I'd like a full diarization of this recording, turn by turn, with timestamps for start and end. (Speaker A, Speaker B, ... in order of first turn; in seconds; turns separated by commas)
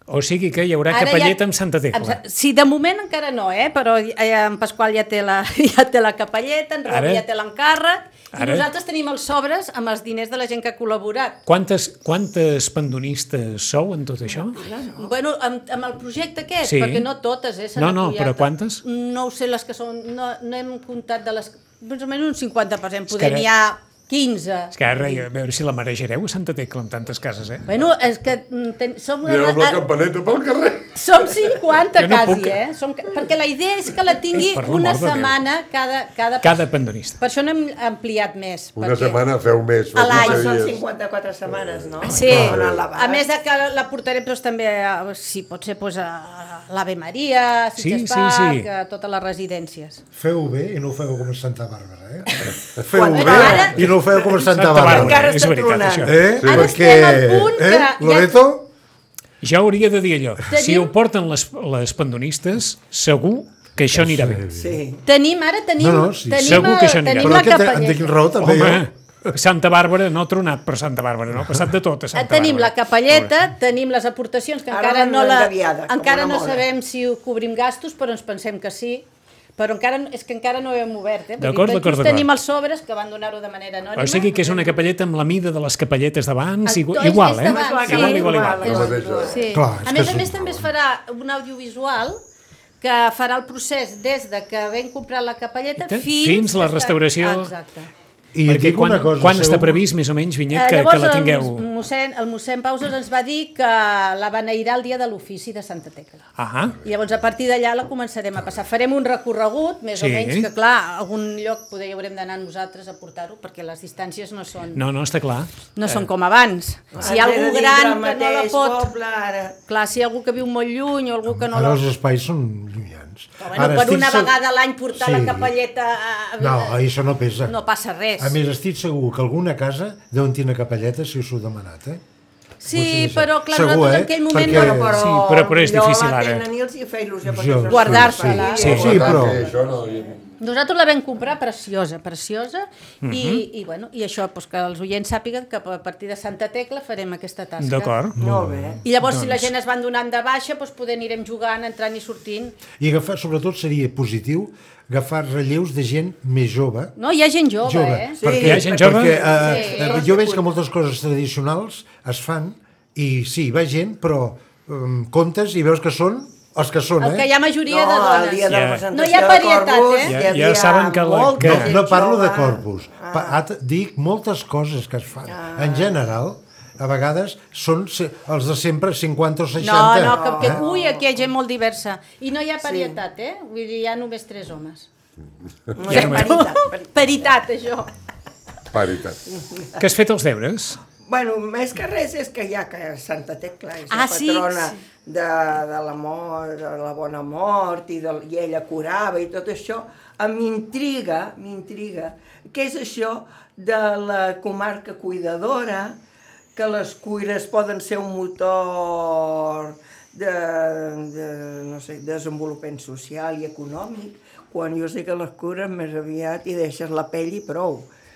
Speaker A: 0.1-2.2, Speaker B: 0.9-1.4, Speaker B: 1.9-11.4, Speaker A: 6.9-7.2, Speaker A: 8.3-8.7, Speaker A: 11.5-14.6, Speaker C: 14.3-15.1, Speaker B: 15.0-25.2, Speaker A: 16.6-17.1, Speaker A: 17.8-18.8, Speaker A: 23.1-23.5, Speaker A: 24.7-27.6, Speaker B: 27.7-29.8, Speaker D: 29.2-31.0, Speaker B: 30.9-36.6, Speaker A: 32.0-32.6, Speaker A: 34.3-35.4, Speaker A: 36.4-37.2, Speaker B: 37.2-39.2, Speaker D: 38.8-40.8, Speaker B: 39.9-40.5, Speaker C: 40.0-43.2, Speaker D: 41.5-41.9, Speaker B: 42.0-50.0, Speaker A: 42.1-42.5, Speaker D: 42.4-42.8, Speaker A: 47.8-48.7, Speaker E: 50.1-55.3, Speaker C: 52.9-54.1, Speaker B: 53.1-53.8, Speaker A: 54.4-56.2, Speaker C: 54.8-56.2, Speaker E: 56.0-58.7, Speaker D: 56.4-56.6, Speaker B: 56.4-58.4, Speaker A: 59.4-64.4, Speaker B: 60.5-60.9, Speaker E: 63.8-64.8, Speaker C: 64.6-65.0, Speaker B: 65.0-68.2, Speaker E: 65.8-68.9, Speaker A: 66.4-67.6, Speaker A: 68.4-73.3, Speaker B: 72.1-84.8, Speaker C: 74.7-76.6, Speaker A: 81.4-82.3, Speaker A: 84.0-89.0, Speaker B: 86.7-92.2, Speaker C: 87.4-89.5, Speaker D: 88.8-89.4, Speaker E: 89.5-90.7, Speaker B: 92.8-97.9, Speaker A: 95.8-97.5, Speaker E: 98.3-99.8, Speaker A: 98.5-101.6, Speaker B: 100.5-106.3, Speaker A: 106.4-106.8, Speaker B: 106.8-114.8, Speaker A: 110.0-110.5, Speaker A: 114.7-116.0, Speaker B: 115.8-118.9, Speaker C: 116.9-119.6, Speaker B: 119.7-121.8, Speaker E: 121.3-124.3, Speaker B: 123.4-126.8, Speaker E: 124.9-125.5, Speaker E: 126.4-127.5, Speaker B: 127.4-128.4, Speaker E: 128.2-132.0, Speaker B: 132.6-134.8, Speaker E: 132.7-135.0, Speaker C: 134.3-140.1, Speaker A: 134.9-136.5, Speaker E: 137.3-139.4, Speaker B: 137.7-138.7, Speaker A: 138.6-139.0, Speaker D: 138.7-140.2, Speaker B: 140.4-147.9, Speaker A: 143.0-143.4, Speaker A: 147.6-148.2, Speaker E: 148.2-148.8, Speaker C: 148.2-148.8, Speaker B: 148.8-152.6, Speaker A: 149.0-149.5, Speaker E: 152.8-156.9, Speaker B: 157.0-158.2, Speaker E: 157.6-167.3, Speaker C: 158.2-160.5, Speaker A: 158.4-159.2, Speaker B: 159.4-160.0, Speaker B: 167.0-170.2, Speaker C: 167.7-173.4, Speaker A: 168.5-168.8, Speaker A: 170.1-171.8, Speaker E: 171.4-180.6, Speaker C: 175.3-176.0, Speaker B: 179.6-184.9, Speaker C: 179.8-181.1, Speaker C: 182.6-183.0, Speaker C: 185.8-186.9, Speaker A: 185.9-186.4, Speaker B: 185.9-187.9, Speaker D: 188.7-189.2, Speaker C: 189.3-189.8, Speaker A: 189.8-190.8, Speaker C: 191.0-206.0, Speaker B: 193.9-194.7, Speaker C: 206.6-217.9